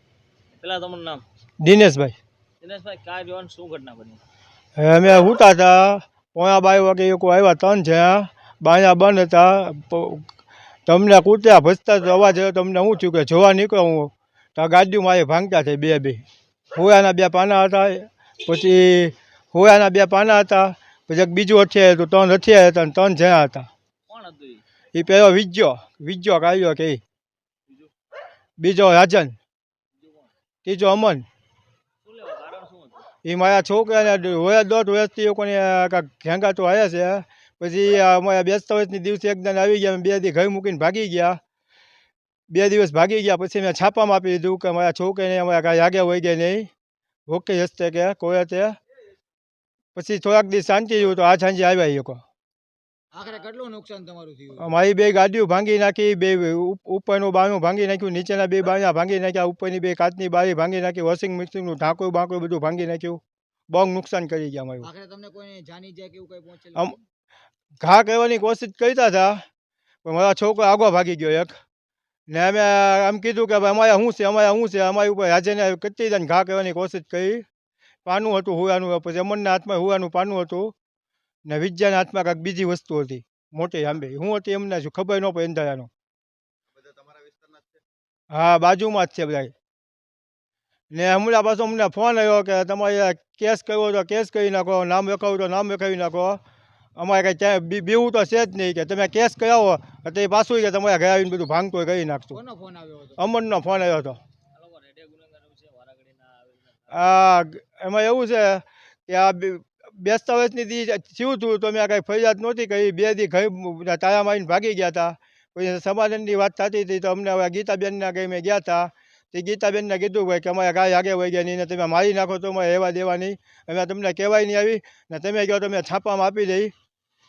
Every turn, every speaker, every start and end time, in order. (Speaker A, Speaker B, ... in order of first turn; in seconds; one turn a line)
Speaker A: 0.6-1.2
Speaker B: 1.6-2.2
Speaker A: 2.6-4.2
Speaker B: 4.8-10.3
Speaker B: 10.9-23.7
Speaker A: 24.1-24.6
Speaker B: 24.9-27.0
Speaker B: 28.6-29.4
Speaker A: 30.0-30.3
Speaker B: 30.6-31.2
Speaker A: 32.0-33.1
Speaker B: 33.2-41.4
Speaker B: 42.5-46.7
Speaker B: 47.3-48.8
Speaker B: 50.0-52.2
Speaker C: 53.1-54.7
Speaker B: 54.5-64.9
Speaker C: 64.8-67.0
Speaker B: 67.8-69.5
Speaker B: 70.0-71.6
Speaker B: 72.3-77.5
Speaker B: 78.1-80.7
Speaker B: 81.5-85.9
Speaker B: 88.3-89.5
Speaker B: 90.9-96.4
Speaker B: 97.0-102.4
Speaker C: 102.3-103.2
Speaker B: 103.2-104.2
Speaker A: 104.5-107.2
Speaker B: 106.9-126.7